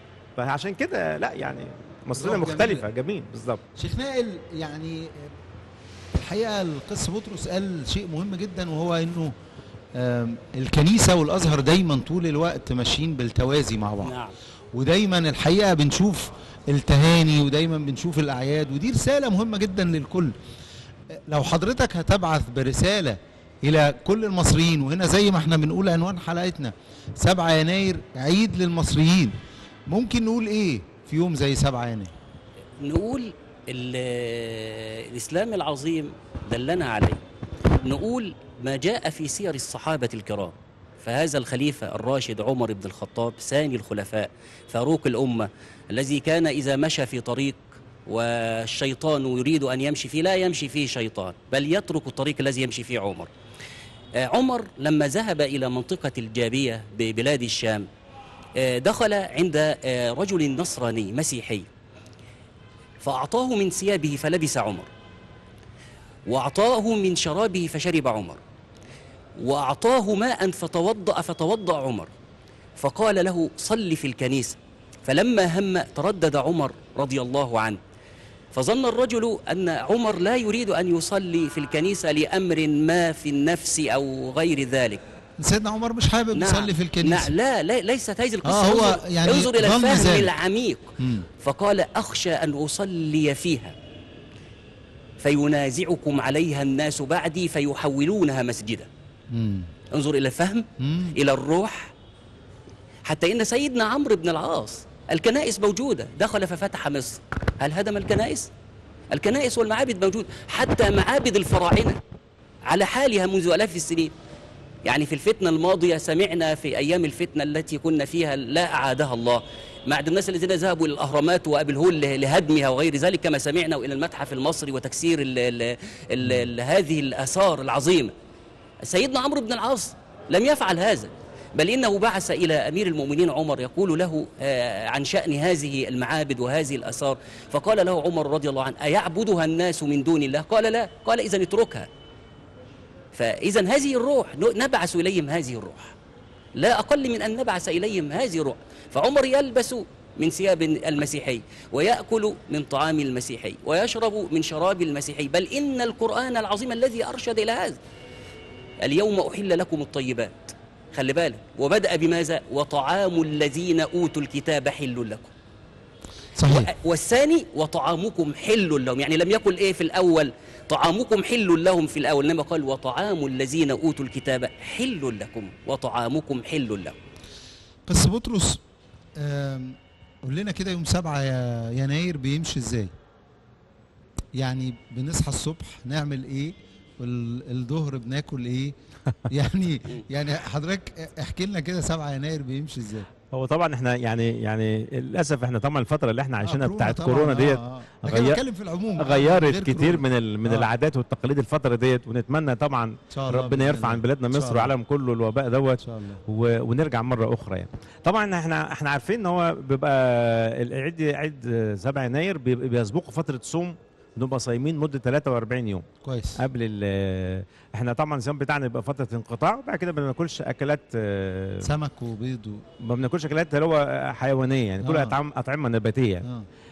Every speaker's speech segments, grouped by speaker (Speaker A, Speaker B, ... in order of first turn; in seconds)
Speaker A: 0.4-3.6, 193.3-198.4, 199.0-215.9, 216.4-221.7, 222.8-226.2
Speaker B: 2.2-2.9, 3.8-5.3, 6.2-9.3, 9.9-14.2, 14.7-20.3, 21.1-29.4, 29.9-32.1, 85.4-87.3, 88.4-90.3, 91.0-91.3, 99.3-99.7, 100.8-101.2, 166.4-166.7, 177.9-178.6, 179.2-182.9, 184.4-188.8, 189.3-193.1, 196.4-200.7, 203.1-204.7, 205.8-206.2, 216.0-216.4, 221.6-222.6, 224.8-225.2
Speaker C: 14.0-14.3, 32.8-37.2, 37.8-53.3, 54.2-57.9, 58.6-61.7, 63.0-64.9, 66.3-68.4, 69.4-72.1, 72.8-77.8, 78.5-85.0, 86.3-93.8, 95.2-98.9, 99.9-101.9, 103.1-108.5, 109.1-112.0, 112.7-114.1, 114.8-128.1, 128.8-141.9, 143.1-145.9, 146.6-157.8, 158.8-165.3, 166.4-177.0